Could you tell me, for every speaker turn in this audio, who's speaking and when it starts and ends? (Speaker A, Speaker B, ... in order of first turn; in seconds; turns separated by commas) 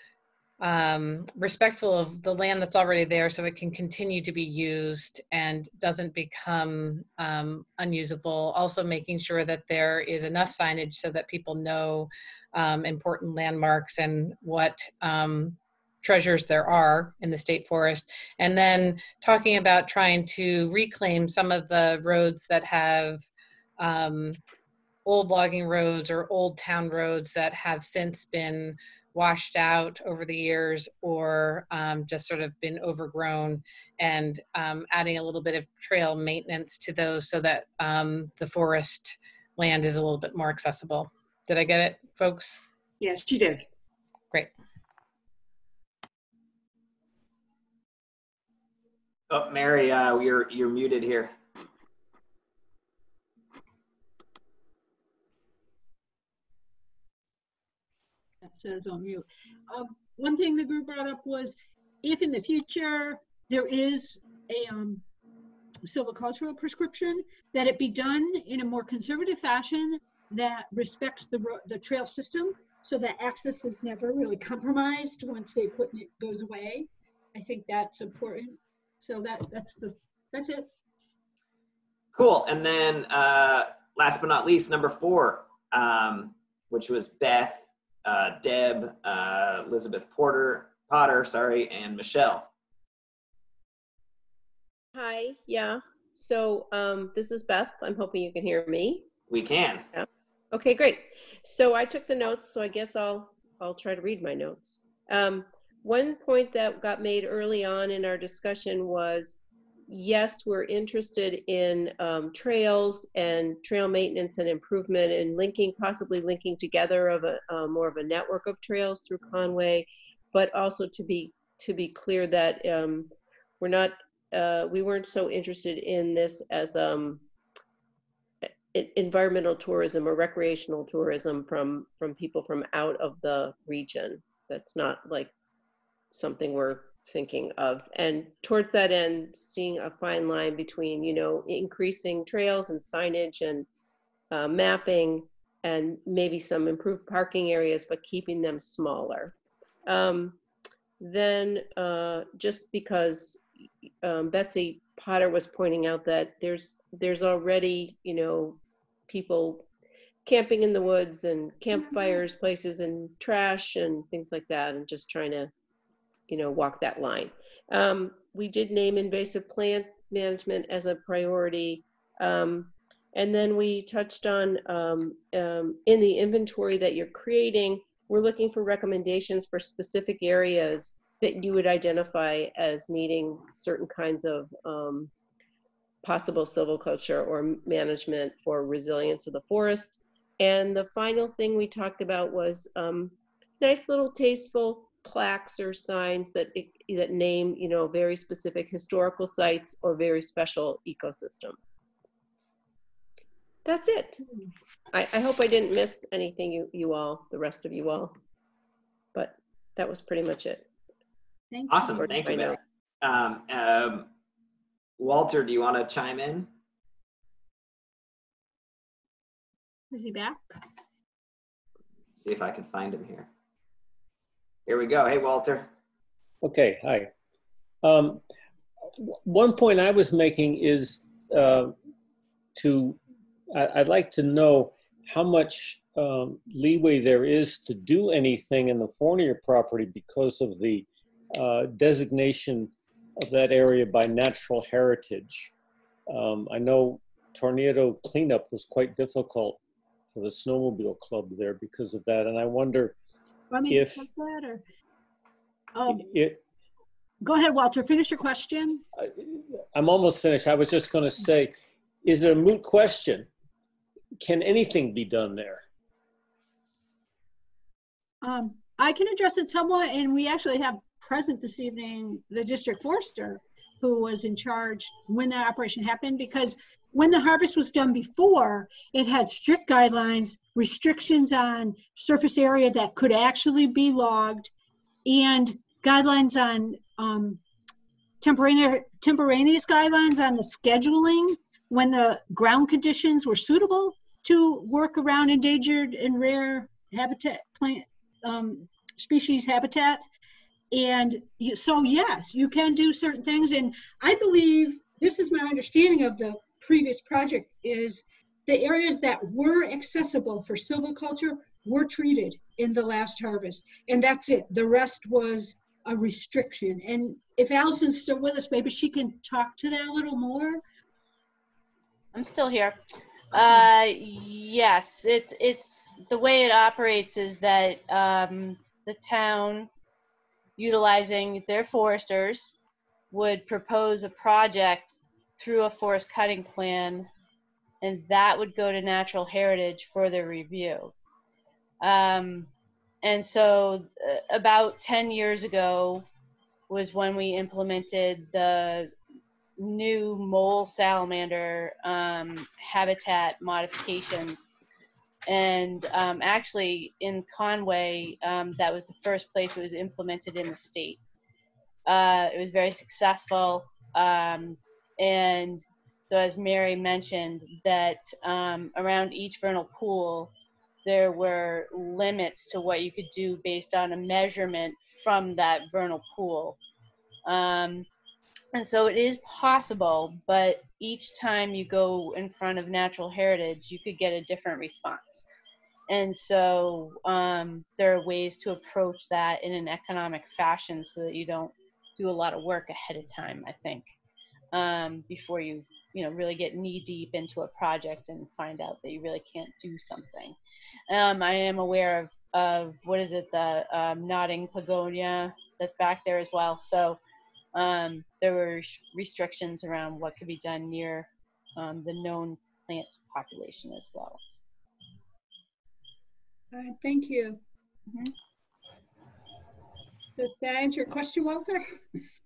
Speaker A: 0.6-23.3, Speaker A: 23.8-24.4, Speaker A: 25.1-42.6, Speaker B: 49.3-51.3, Speaker C: 58.4-65.0, Speaker C: 65.8-80.7, Speaker B: 82.2-92.5, Speaker D: 94.9-99.1, Speaker B: 99.3-99.9, Speaker D: 99.9-127.2, Speaker D: 128.7-135.3, Speaker D: 136.1-143.7, Speaker D: 144.3-149.3, Speaker D: 149.9-150.4, Speaker D: 151.0-153.5, Speaker D: 154.0-159.7, Speaker D: 160.2-165.5, Speaker C: 161.7-162.2, Speaker D: 166.3-185.1, Speaker D: 186.0-201.8, Speaker D: 203.7-204.2, Speaker D: 204.9-208.2, Speaker D: 209.1-210.7, Speaker C: 211.5-212.1, Speaker B: 211.7-214.1, Speaker D: 212.0-212.6, Speaker B: 215.0-216.5, Speaker C: 219.9-220.4, Speaker B: 222.2-223.3, Speaker B: 224.7-225.7, Speaker E: 226.4-227.1, Speaker E: 227.8-228.2, Speaker E: 229.0-231.8, Speaker E: 232.6-233.0, Speaker E: 233.6-245.5, Speaker E: 246.1-249.6, Speaker E: 250.1-253.0, Speaker C: 253.5-254.6, Speaker E: 253.7-254.1, Speaker C: 255.8-256.1, Speaker E: 255.9-256.4, Speaker C: 257.2-258.8, Speaker E: 259.0-263.3, Speaker E: 264.2-265.6, Speaker C: 268.2-284.5, Speaker C: 285.1-287.4, Speaker C: 288.2-300.0, Speaker C: 300.7-320.6, Speaker F: 322.1-322.8, Speaker F: 323.3-329.7, Speaker F: 330.6-332.5, Speaker F: 333.1-337.1, Speaker F: 337.8-340.9, Speaker F: 341.8-342.5, Speaker F: 343.0-346.1, Speaker F: 346.7-348.9, Speaker F: 349.6-354.6, Speaker F: 355.3-361.0, Speaker F: 361.9-370.3, Speaker F: 370.9-376.6, Speaker F: 377.2-377.9, Speaker F: 378.5-385.3, Speaker F: 385.9-393.8, Speaker F: 394.5-400.4, Speaker F: 400.9-407.0, Speaker F: 407.5-414.2, Speaker C: 416.5-417.4, Speaker C: 420.2-421.6